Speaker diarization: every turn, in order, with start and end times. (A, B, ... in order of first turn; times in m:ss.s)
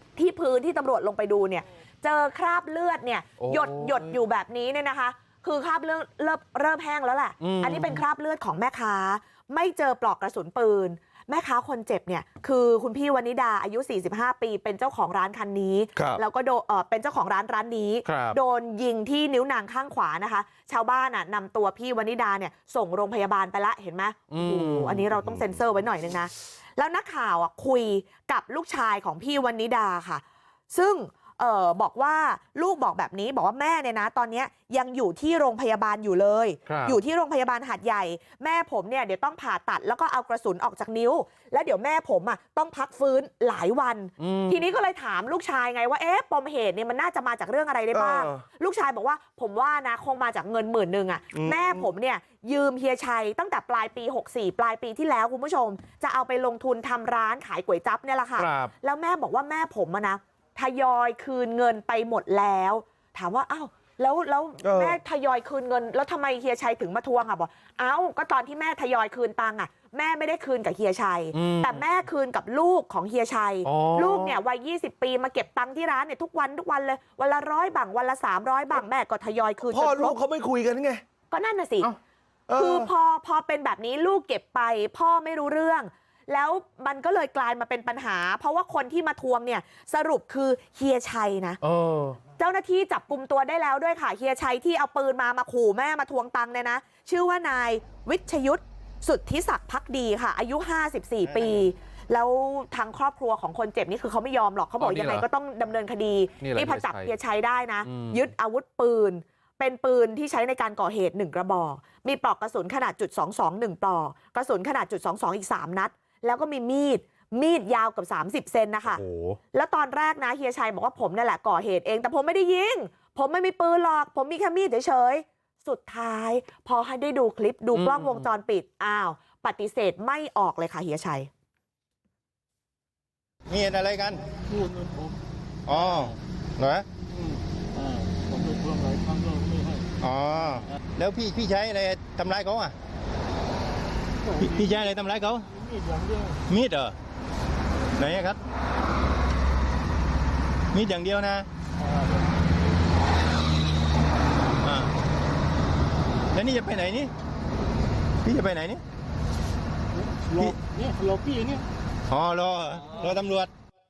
0:00.2-1:20.2 A
0:03.4-0:04.1 B
0:07.4-0:08.0 B
0:18.0-0:18.4 B
0:24.3-0:25.0 B
0:36.6-0:37.0 B
0:44.2-0:44.6 B
0:47.9-0:48.4 C
0:51.3-0:51.8 C
0:58.4-0:58.7 B
1:04.6-1:05.0 C
1:11.3-1:11.8 B
1:13.6-1:14.4 B
1:19.7-1:21.0 C
1:21.3-1:21.9 A
1:22.5-1:22.9 C
1:22.5-1:31.6 A
1:31.6-1:32.2 B
1:32.4-1:59.0 A
1:44.8-1:45.2 B
1:46.4-1:47.1 B
1:47.8-1:48.3 B
1:58.8-1:59.4 B
1:59.5-2:11.3 A
2:07.7-2:08.3 B
2:13.5-2:14.2 D
2:14.4-2:15.2 E
2:15.7-2:16.8 D
2:17.2-2:19.8 E
2:20.0-2:22.7 D
2:24.2-2:24.7 E
2:24.4-2:25.5 D
2:25.6-2:26.4 E
2:26.5-2:27.0 D
2:28.0-2:28.4 D
2:30.7-2:31.5 D
2:34.6-2:34.9 D
2:36.3-2:37.1 D
2:38.2-2:38.8 D
2:40.2-2:41.6 E
2:42.1-2:43.5 D